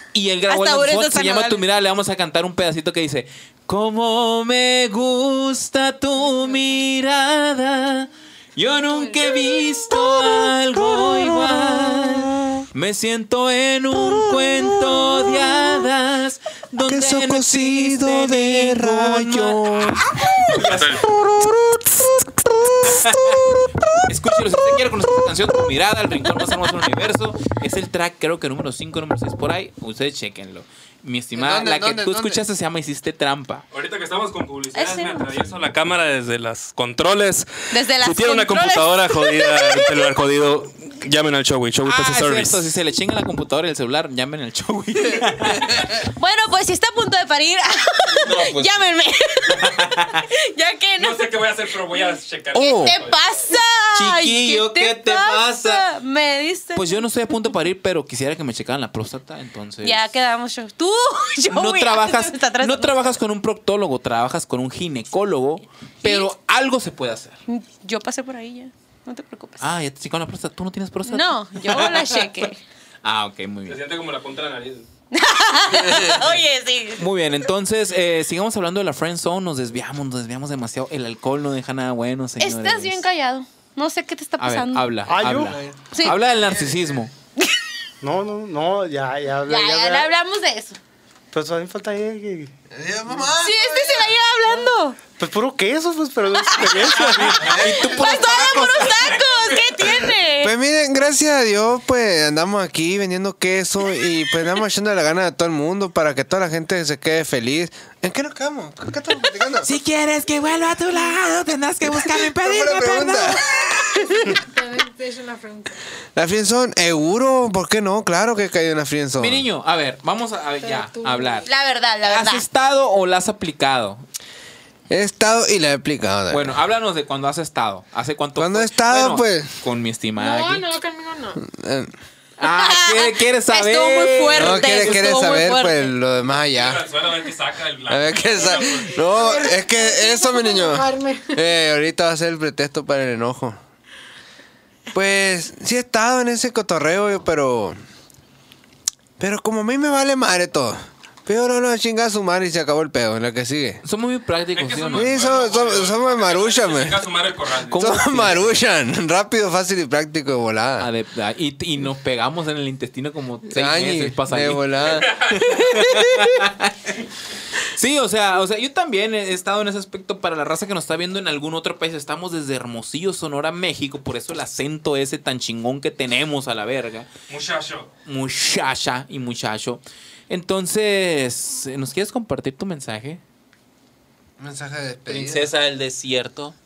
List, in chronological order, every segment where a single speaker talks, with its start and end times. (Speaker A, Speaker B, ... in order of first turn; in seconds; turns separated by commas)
Speaker A: 0.1-21.2, Speaker B: 0.5-1.6, Speaker C: 6.3-6.6, Speaker C: 8.9-9.4, Speaker D: 16.9-20.1, Speaker E: 20.6-21.1, Speaker D: 20.9-23.4, Speaker A: 22.8-33.6, Speaker D: 31.4-32.4, Speaker E: 33.7-42.7, Speaker B: 34.7-35.3, Speaker B: 37.7-40.1, Speaker A: 41.8-46.0, Speaker B: 45.9-51.3, Speaker A: 48.2-48.9, Speaker A: 49.5-50.2, Speaker E: 51.0-53.2, Speaker B: 51.9-57.1, Speaker A: 52.5-53.0, Speaker A: 53.9-55.9, Speaker A: 56.8-60.1, Speaker B: 59.8-63.2, Speaker A: 61.5-67.4, Speaker B: 66.0-66.3, Speaker B: 67.5-69.7, Speaker A: 69.6-72.3, Speaker B: 71.1-72.6, Speaker A: 73.0-73.8, Speaker E: 73.7-74.9, Speaker B: 75.1-77.1, Speaker A: 77.0-83.0, Speaker B: 82.4-84.9, Speaker A: 84.4-87.1, Speaker F: 85.1-85.6, Speaker D: 85.3-87.0, Speaker F: 88.0-90.1, Speaker B: 89.5-90.8, Speaker F: 91.3-92.5, Speaker D: 92.7-94.1, Speaker B: 93.4-95.0, Speaker F: 94.5-97.6, Speaker A: 96.8-99.2, Speaker D: 97.3-98.6, Speaker B: 97.6-100.5, Speaker E: 99.3-99.7, Speaker D: 100.4-109.7, Speaker A: 109.6-114.0, Speaker D: 112.0-113.4, Speaker C: 114.2-115.8, Speaker D: 116.2-119.5, Speaker A: 119.2-121.5, Speaker C: 120.6-121.5, Speaker B: 121.5-122.5, Speaker A: 122.0-124.0, Speaker D: 124.9-126.6, Speaker A: 126.3-130.7, Speaker D: 128.4-129.6, Speaker C: 130.2-131.4, Speaker D: 131.4-131.9, Speaker A: 132.4-135.3, Speaker B: 132.4-135.9, Speaker D: 134.3-136.9, Speaker E: 136.5-139.1, Speaker D: 137.9-143.6, Speaker C: 138.3-141.4, Speaker D: 144.9-147.8, Speaker D: 149.2-153.8, Speaker A: 153.8-155.4, Speaker E: 154.6-157.8, Speaker D: 154.9-157.1, Speaker A: 157.7-158.6, Speaker D: 157.7-160.9, Speaker A: 160.8-166.9, Speaker D: 163.5-166.5, Speaker E: 164.9-165.4, Speaker A: 167.6-177.1, Speaker E: 177.3-177.9, Speaker A: 178.1-183.2, Speaker D: 184.4-185.5, Speaker A: 185.1-186.6